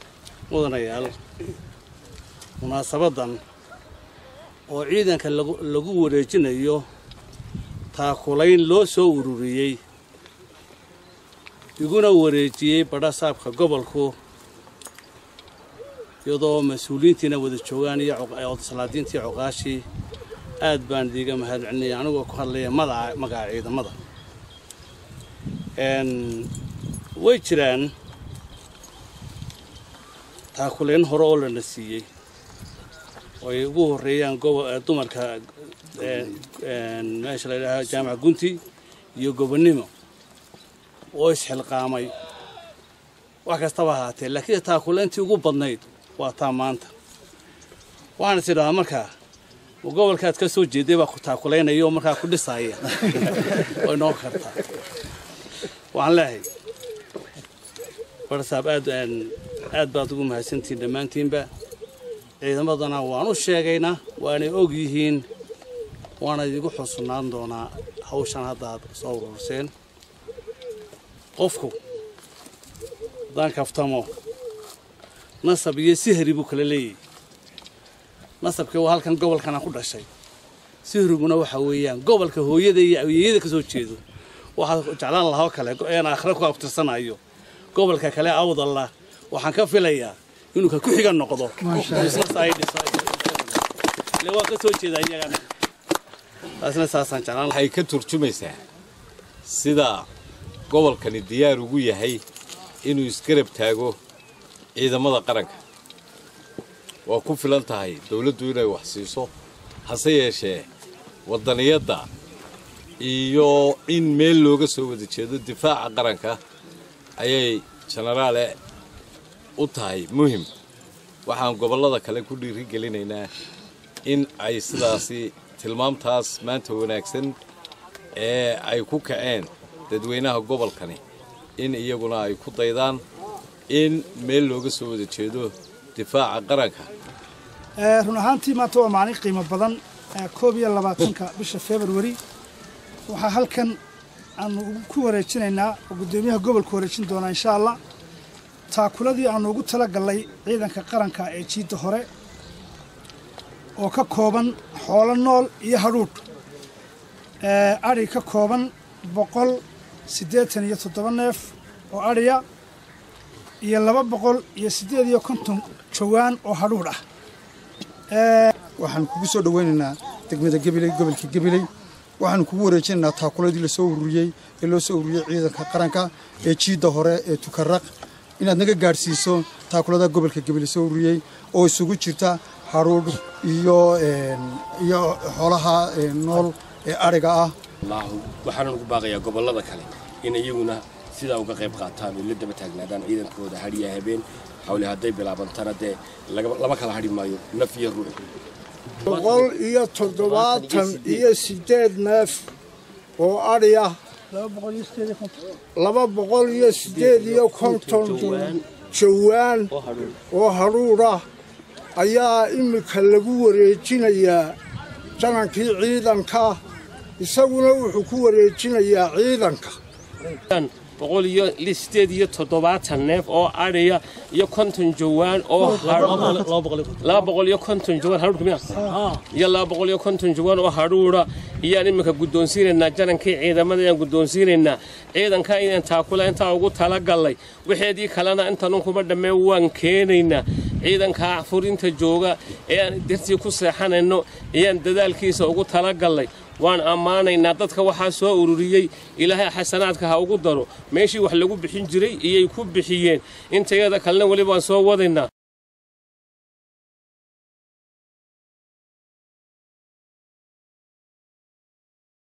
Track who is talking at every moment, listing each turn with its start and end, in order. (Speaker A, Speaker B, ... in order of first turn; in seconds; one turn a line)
Speaker A: 0.5-1.2
Speaker A: 2.6-3.4
Speaker A: 4.7-6.8
Speaker A: 7.9-9.8
Speaker A: 11.8-14.2
Speaker A: 16.2-19.9
Speaker A: 20.6-23.9
Speaker A: 25.8-26.5
Speaker A: 27.2-27.9
Speaker A: 30.6-32.1
Speaker A: 33.4-38.6
Speaker A: 39.2-39.9
Speaker A: 41.1-42.1
Speaker A: 43.5-46.9
Speaker A: 48.2-49.1
Speaker A: 49.8-54.6
Speaker A: 55.9-56.5
Speaker A: 58.3-61.5
Speaker A: 62.4-65.3
Speaker A: 66.2-69.7
Speaker A: 71.4-71.8
Speaker A: 73.3-74.1
Speaker A: 75.4-77.0
Speaker A: 78.4-80.1
Speaker A: 80.8-84.0
Speaker A: 84.6-87.2
Speaker A: 87.7-93.6
Speaker A: 94.2-95.4
Speaker A: 96.6-97.5
Speaker B: 97.5-98.6
Speaker B: 99.5-100.1
Speaker B: 100.7-102.2
Speaker B: 102.8-104.0
Speaker B: 104.8-105.6
Speaker B: 107.1-109.3
Speaker B: 109.9-110.7
Speaker B: 111.3-112.1
Speaker B: 113.0-116.4
Speaker B: 117.2-118.6
Speaker B: 119.6-120.5
Speaker B: 121.3-123.3
Speaker B: 124.0-127.4
Speaker B: 128.2-131.0
Speaker B: 131.6-133.0
Speaker B: 133.7-136.9
Speaker C: 137.8-142.2
Speaker C: 143.1-143.8
Speaker C: 144.4-147.8
Speaker C: 148.7-152.1
Speaker C: 153.8-156.2
Speaker C: 157.4-162.4
Speaker C: 163.6-167.0
Speaker C: 168.1-168.5
Speaker D: 168.8-171.7
Speaker D: 172.2-187.6
Speaker E: 187.8-198.2
Speaker F: 199.0-199.5
Speaker G: 199.1-202.5
Speaker F: 200.1-201.3
Speaker G: 203.2-204.0
Speaker C: 204.3-205.3
Speaker G: 205.8-209.7
Speaker F: 206.8-208.6
Speaker F: 209.7-210.2
Speaker G: 210.3-211.2
Speaker G: 211.9-214.6
Speaker G: 215.2-216.6
Speaker G: 217.2-219.8
Speaker F: 220.5-226.5
Speaker A: 225.6-227.3
Speaker F: 227.0-255.3
Speaker A: 228.8-229.2